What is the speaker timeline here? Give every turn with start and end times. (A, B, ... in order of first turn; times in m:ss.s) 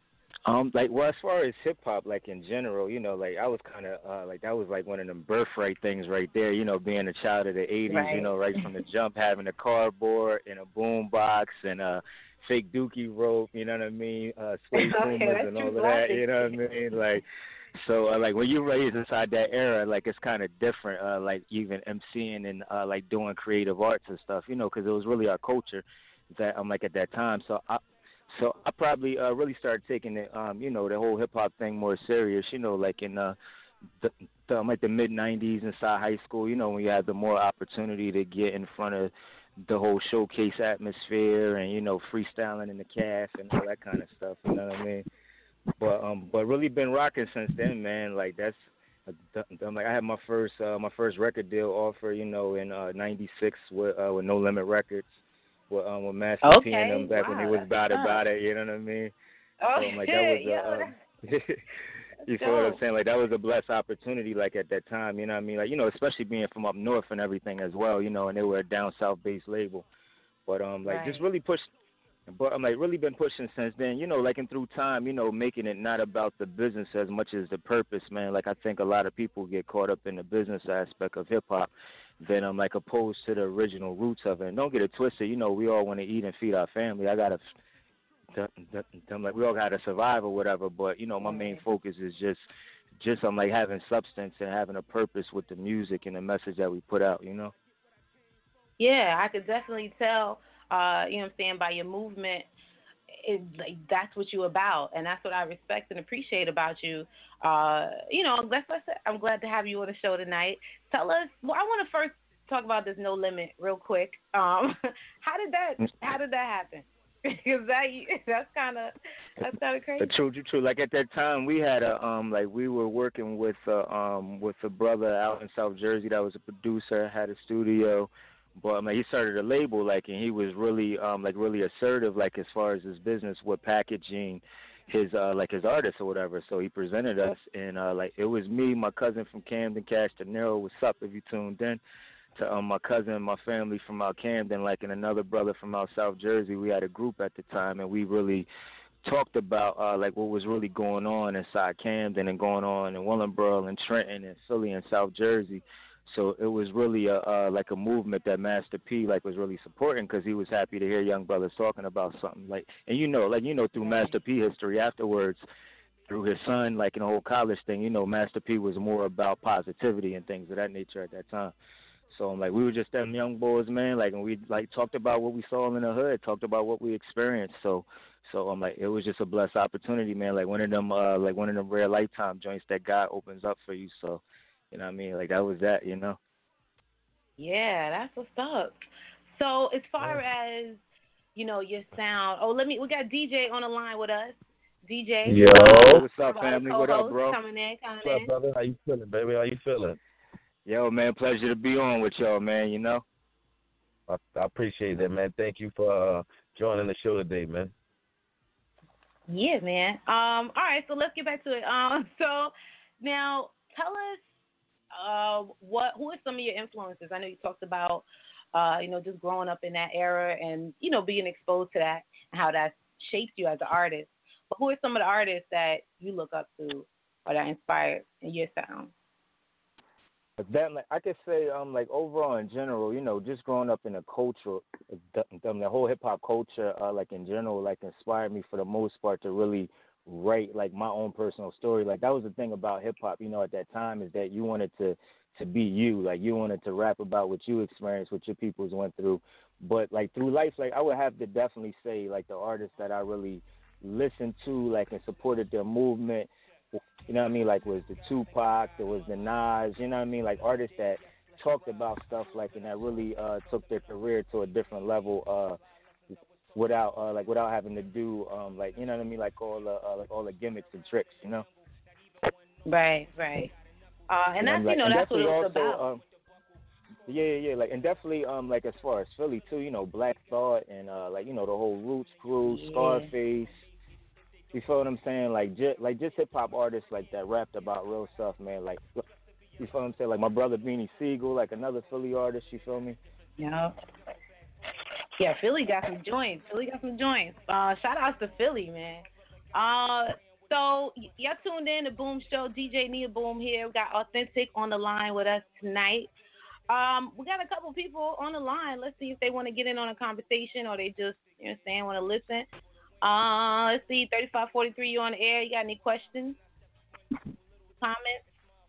0:00.4-0:17.2 A
0:07.9-0:08.7 B
0:14.7-0:16.6 B
0:17.8-0:33.4 A
0:34.0-0:45.0 A
0:45.8-0:59.1 A
0:56.4-0:58.2 B
0:59.6-1:00.9 B
0:59.7-1:01.6 A
1:02.2-1:09.8 A
1:02.3-1:02.8 B
1:10.5-1:11.7 A
1:10.8-1:11.2 B
1:12.3-1:27.4 A
1:28.3-1:37.5 A
1:31.2-1:31.6 B
1:38.8-1:42.5 B
1:43.2-2:00.1 B
2:00.0-2:21.8 A
2:22.3-2:28.5 A
2:29.0-2:45.4 A
2:46.1-2:51.5 A
2:52.1-3:06.2 A
3:07.4-3:10.8 B
3:11.4-3:14.4 B
3:14.9-3:18.3 B
3:15.2-3:16.0 C
3:15.5-3:17.4 A
3:18.0-3:20.0 C
3:20.6-3:23.0 A
3:24.1-3:27.7 C
3:29.3-3:34.2 B
3:34.9-3:48.9 B
3:50.4-4:16.3 A
4:17.0-4:25.6 A
4:26.5-4:31.5 A
4:32.6-4:33.5 B
4:34.1-4:35.8 B
4:34.4-4:36.0 A
4:37.0-4:43.6 A
4:42.4-4:43.1 B
4:44.5-4:49.0 A
4:49.6-4:53.0 A
4:53.4-4:53.7 B
4:55.2-5:06.1 B
5:06.7-5:12.5 B
5:13.0-5:16.4 B
5:17.8-5:18.2 B